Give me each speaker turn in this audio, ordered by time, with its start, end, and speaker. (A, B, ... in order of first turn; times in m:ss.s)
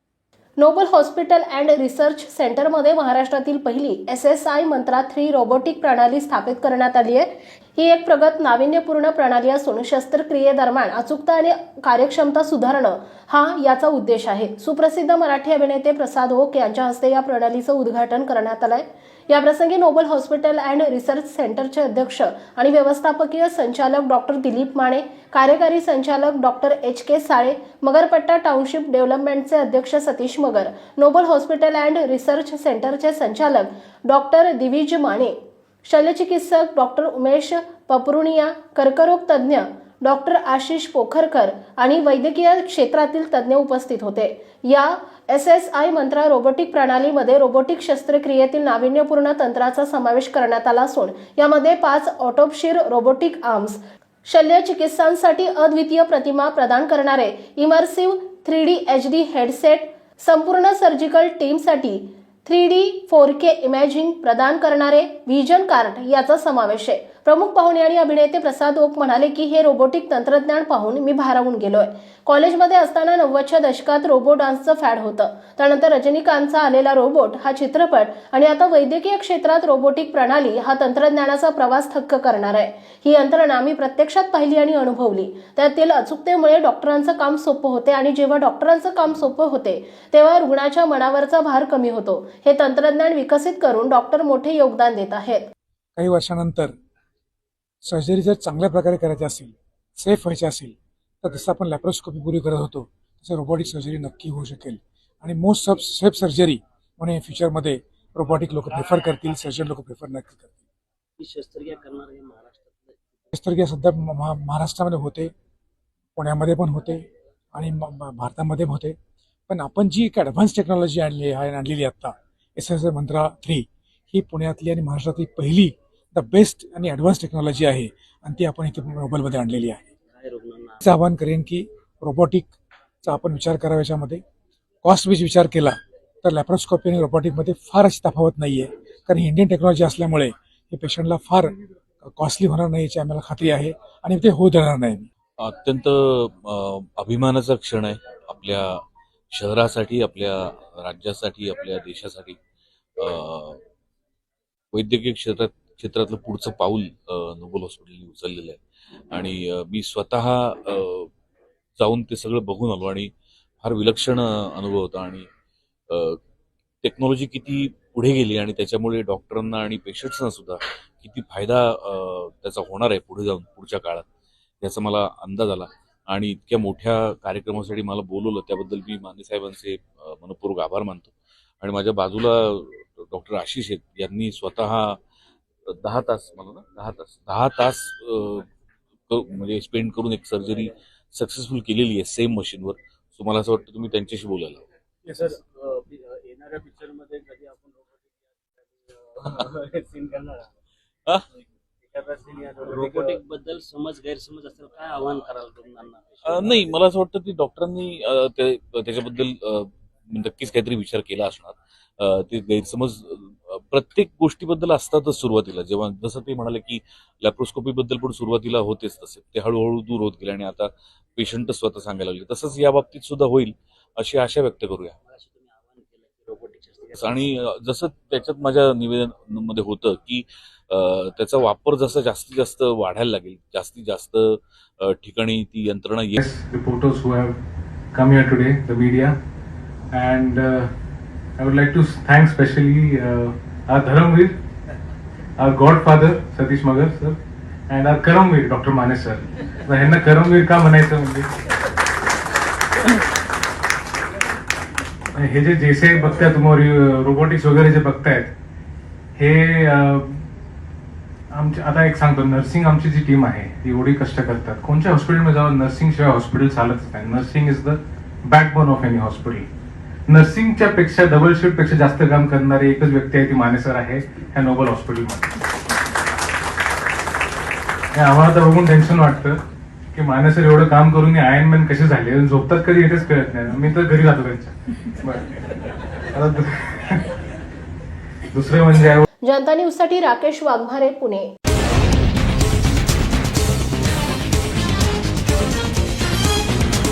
0:00.6-1:35.5 A
1:36.0-1:36.7 B
1:37.8-1:50.6 B
1:51.2-1:53.2 C
1:53.3-1:55.3 B
1:56.2-1:59.0 B
1:59.5-2:09.8 B
2:10.1-2:10.8 C
2:10.8-2:12.5 B
2:13.0-2:14.2 B
2:14.8-2:25.1 B
2:25.4-2:32.4 D
2:33.0-2:33.6 D
2:34.7-2:38.6 D
2:39.1-2:41.1 D
2:41.8-2:43.1 D
2:43.6-2:45.3 D
2:45.9-2:46.2 D
2:46.8-2:54.1 D
2:54.6-3:05.0 D
3:05.7-3:08.5 D
3:09.1-3:14.6 D
3:15.1-3:17.8 C
3:19.2-3:20.4 C
3:22.0-3:26.7 C
3:26.2-3:45.0 D
3:45.2-3:47.2 C
3:46.9-3:56.2 D
3:56.2-3:57.4 E
3:57.9-3:59.2 E
3:59.9-4:00.7 E
4:01.4-4:04.4 E
4:05.4-4:07.2 E
4:07.7-4:11.3 E
4:15.1-4:18.3 E
4:19.2-4:20.2 E
4:21.3-4:29.5 E
4:30.1-4:35.3 E
4:37.9-4:39.4 E
4:39.9-4:45.3 E
4:46.1-4:47.1 E
4:48.3-4:49.0 E
4:49.2-4:51.3 A